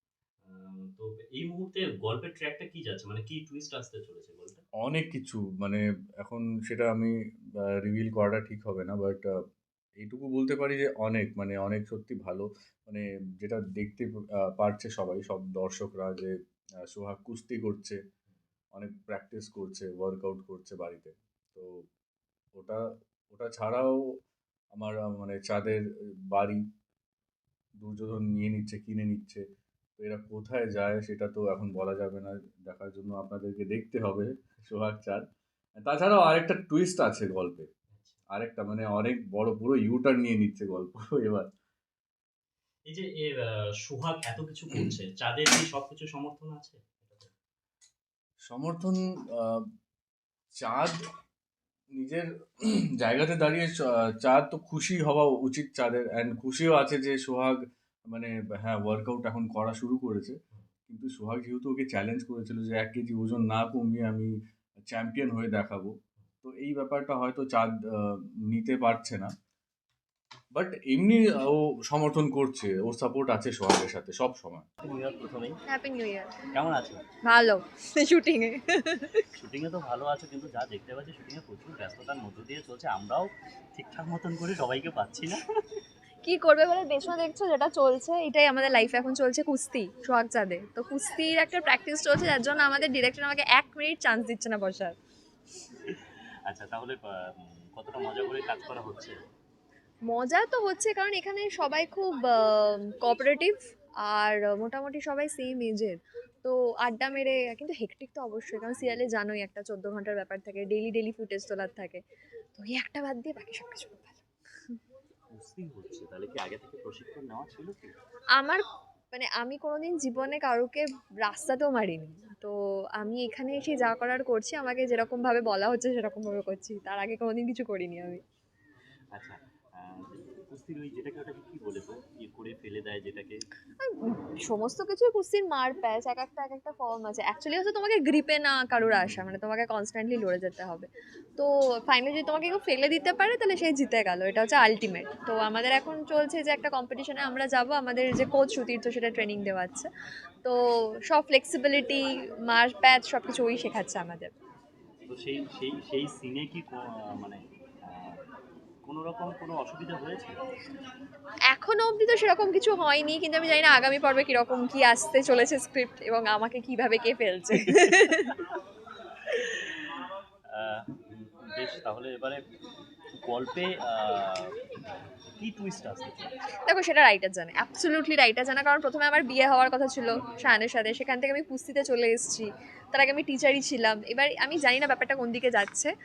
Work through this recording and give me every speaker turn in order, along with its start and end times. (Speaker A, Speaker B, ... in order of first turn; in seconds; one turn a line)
Speaker A: 0.4-4.6
Speaker B: 4.8-9.3
Speaker B: 10.0-16.3
Speaker B: 16.9-18.0
Speaker B: 18.7-21.8
Speaker B: 22.6-24.0
Speaker B: 24.8-26.6
Speaker B: 27.8-29.4
Speaker B: 30.0-35.2
Speaker B: 35.8-37.7
Speaker A: 37.9-38.2
Speaker B: 38.3-41.5
Speaker A: 42.9-47.3
Speaker B: 48.5-49.7
Speaker B: 50.6-50.9
Speaker B: 52.0-60.4
Speaker B: 60.9-69.3
Speaker B: 70.5-74.7
Speaker A: 74.8-75.6
Speaker C: 75.7-76.3
Speaker A: 76.5-77.0
Speaker C: 77.2-79.2
Speaker A: 79.3-85.4
Speaker C: 86.2-95.0
Speaker A: 95.9-99.2
Speaker C: 100.1-112.0
Speaker A: 108.8-109.0
Speaker C: 112.5-114.8
Speaker A: 115.3-118.0
Speaker C: 118.3-118.6
Speaker C: 119.1-128.2
Speaker A: 129.1-133.5
Speaker C: 133.8-149.9
Speaker A: 139.0-139.3
Speaker C: 150.4-154.3
Speaker A: 155.1-158.2
Speaker A: 158.8-160.4
Speaker C: 161.5-168.3
Speaker A: 170.5-172.4
Speaker A: 173.1-176.3
Speaker C: 176.7-185.9